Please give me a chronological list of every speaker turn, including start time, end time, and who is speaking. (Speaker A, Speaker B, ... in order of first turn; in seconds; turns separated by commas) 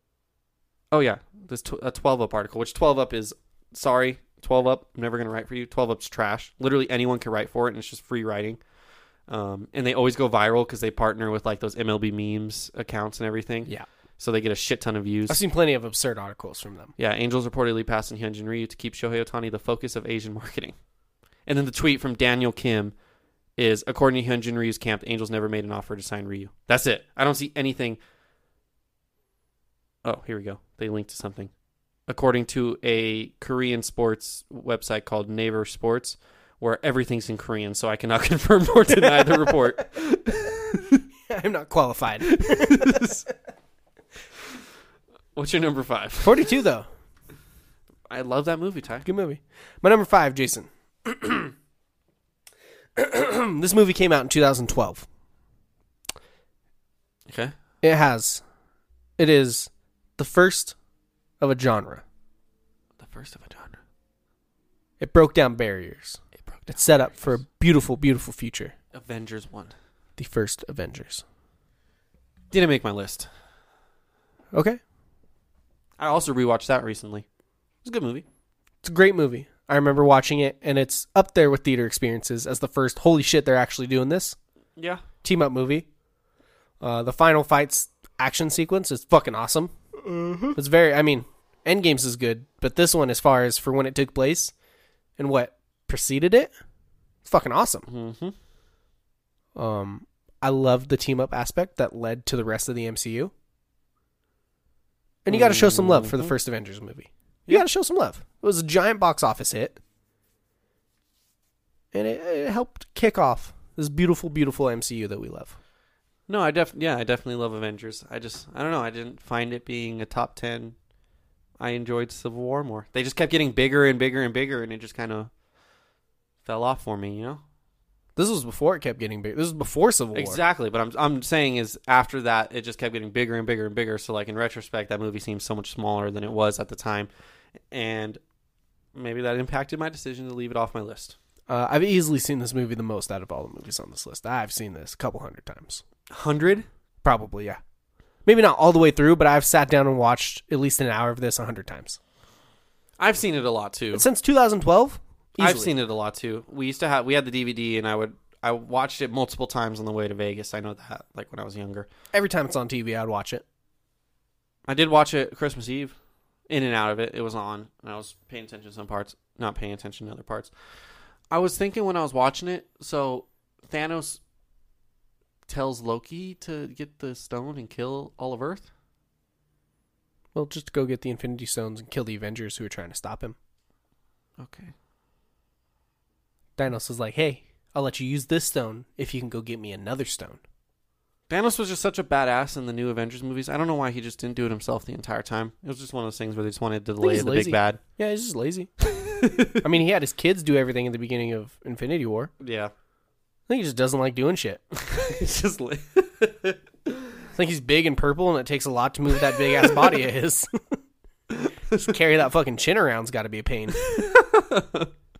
Speaker A: 0.9-8.6, Speaker A: 9.3-15.4, Speaker B: 15.3-16.9, Speaker A: 17.0-20.8, Speaker A: 21.5-22.9, Speaker A: 23.6-28.0, Speaker A: 30.0-31.5, Speaker A: 32.1-41.0, Speaker B: 41.3-43.1, Speaker A: 42.2-43.3, Speaker A: 45.4-46.5, Speaker B: 46.2-46.9, Speaker A: 48.1-49.1, Speaker B: 49.0-51.5, Speaker B: 53.0-55.1, Speaker A: 57.3-57.5, Speaker B: 57.8-58.4, Speaker B: 59.2-60.8, Speaker B: 61.4-62.0, Speaker A: 63.0-63.8, Speaker B: 65.0-68.7, Speaker A: 66.5-67.1, Speaker A: 68.9-69.7, Speaker B: 70.2-71.2, Speaker A: 72.5-73.3, Speaker B: 74.5-74.8, Speaker A: 76.0-77.2, Speaker A: 77.8-78.2, Speaker B: 78.8-84.4, Speaker A: 84.8-85.0, Speaker B: 85.2-85.9, Speaker B: 86.8-89.8, Speaker B: 90.5-94.5, Speaker B: 95.2-96.5, Speaker B: 97.2-97.9, Speaker A: 97.9-98.3, Speaker B: 99.6-103.3, Speaker B: 105.2-109.8, Speaker A: 105.3-106.3, Speaker B: 111.9-115.6, Speaker A: 116.3-120.8, Speaker A: 121.6-125.3, Speaker A: 126.4-127.4, Speaker B: 128.2-130.4, Speaker A: 130.2-137.1, Speaker A: 137.7-138.2, Speaker A: 138.9-141.2, Speaker B: 141.5-145.8, Speaker A: 146.1-146.7, Speaker B: 147.0-147.6, Speaker B: 148.2-152.0, Speaker A: 153.0-154.1, Speaker B: 153.9-155.7, Speaker A: 155.4-161.9, Speaker B: 162.1-163.4, Speaker A: 164.7-165.9, Speaker A: 166.5-170.5, Speaker A: 171.3-174.2, Speaker A: 175.5-178.7, Speaker B: 180.3-183.4, Speaker A: 184.4-184.7, Speaker B: 186.6-190.4, Speaker A: 191.3-197.8, Speaker B: 197.0-198.7, Speaker A: 198.8-199.6, Speaker B: 199.6-202.3, Speaker A: 202.4-202.7, Speaker B: 203.5-204.6, Speaker A: 204.7-207.1, Speaker B: 207.3-210.8, Speaker A: 209.6-209.9, Speaker A: 211.3-211.9, Speaker B: 211.7-213.8, Speaker A: 213.8-214.9